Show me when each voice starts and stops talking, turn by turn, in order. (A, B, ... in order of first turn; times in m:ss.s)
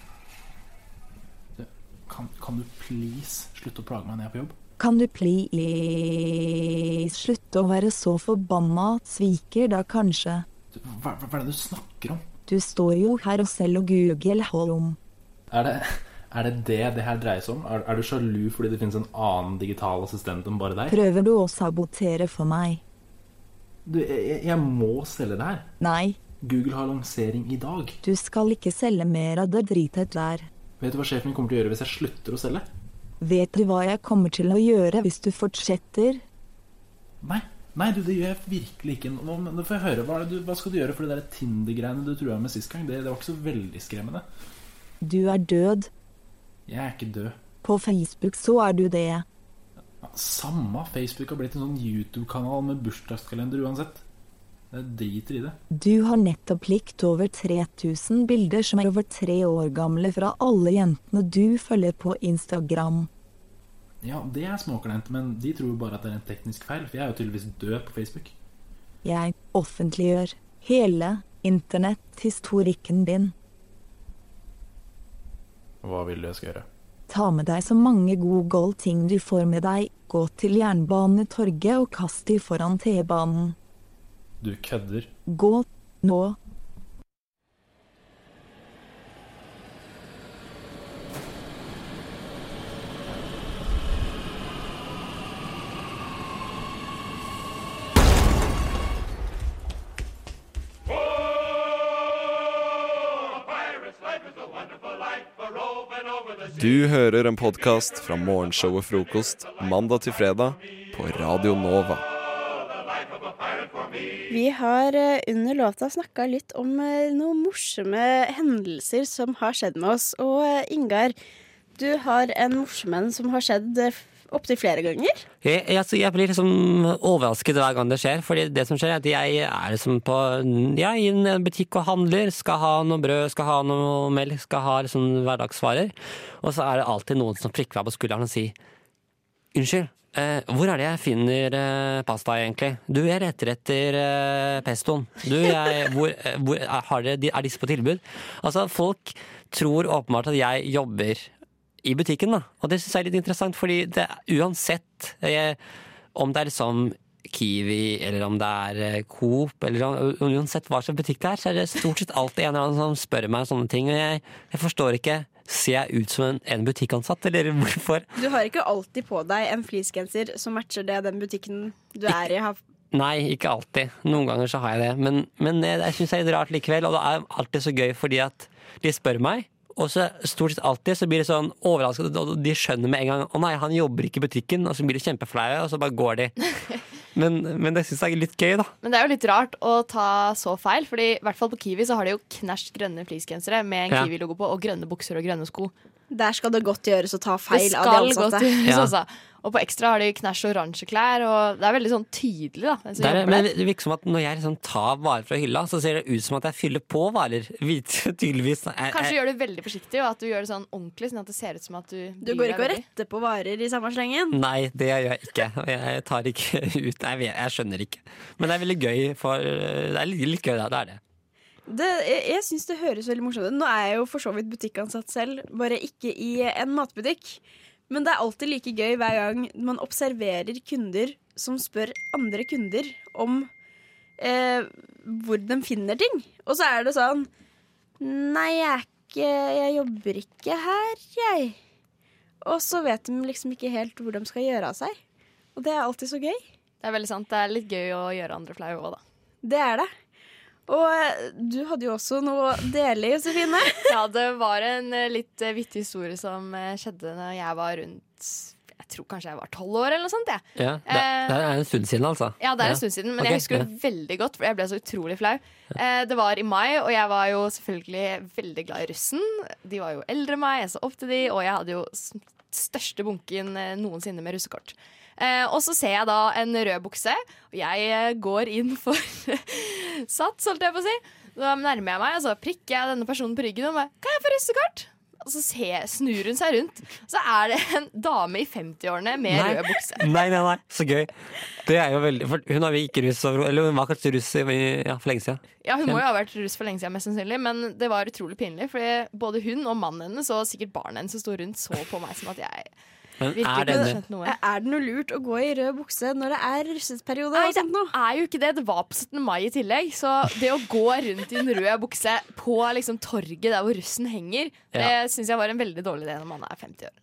0:01.6-0:04.6 A
0:04.8-0:10.4 B
0:10.7-0:12.2 A
0:12.5-0:15.0 B
0:15.5-0:21.0 A
0:20.9-0:22.8 B
0:23.8-0:25.7 A
0:25.8-0:26.2 B
0:26.4-0:28.0 A
0:28.0-0:30.5 B
0:30.8-0:32.6 A
0:33.2-0:36.2 B
0:37.2-0:44.2 A
0:45.0-0:45.9 B
0:46.7-0:47.4 A
0:47.6-0:49.2 B
0:50.0-0:54.0 A
0:54.7-0:55.6 A
0:55.7-1:03.1 B
1:04.0-1:08.3 A
1:09.0-1:13.3 B
1:15.8-1:16.7 A
1:17.1-1:23.6 B
1:24.4-1:25.1 A
1:25.3-1:26.4 B
1:46.5-1:52.0 C
1:54.3-2:01.1 D
2:01.8-2:05.2 D
2:05.4-2:18.6 E
2:19.5-2:31.3 E
2:31.8-2:35.6 E
2:36.1-2:48.1 E
2:48.1-2:52.6 D
2:52.9-3:06.3 E
3:06.4-3:06.8 F
3:07.1-3:08.7 E
3:08.8-3:15.7 F
3:16.1-3:18.6 D
3:17.5-3:23.5 F
3:18.6-3:18.9 E
3:23.0-3:29.1 E
3:28.9-3:32.8 F
3:32.2-3:34.4 D
3:34.3-3:41.0 E
3:41.7-3:53.5 D
3:54.2-3:57.3 D
3:58.0-4:01.6 D
4:02.4-4:05.0 D
4:05.5-4:06.4 D
4:06.8-4:09.0 F
4:09.4-4:09.9 D
4:10.7-4:14.0 D
4:13.9-4:21.4 F
4:20.6-4:23.7 E
4:22.4-4:50.1 F
4:49.2-4:51.1 E
4:51.6-4:56.0 E
4:55.6-5:02.7 F
5:03.2-5:04.0 E
5:03.2-5:04.4 F
5:03.7-5:07.9 D
5:07.3-5:16.9 F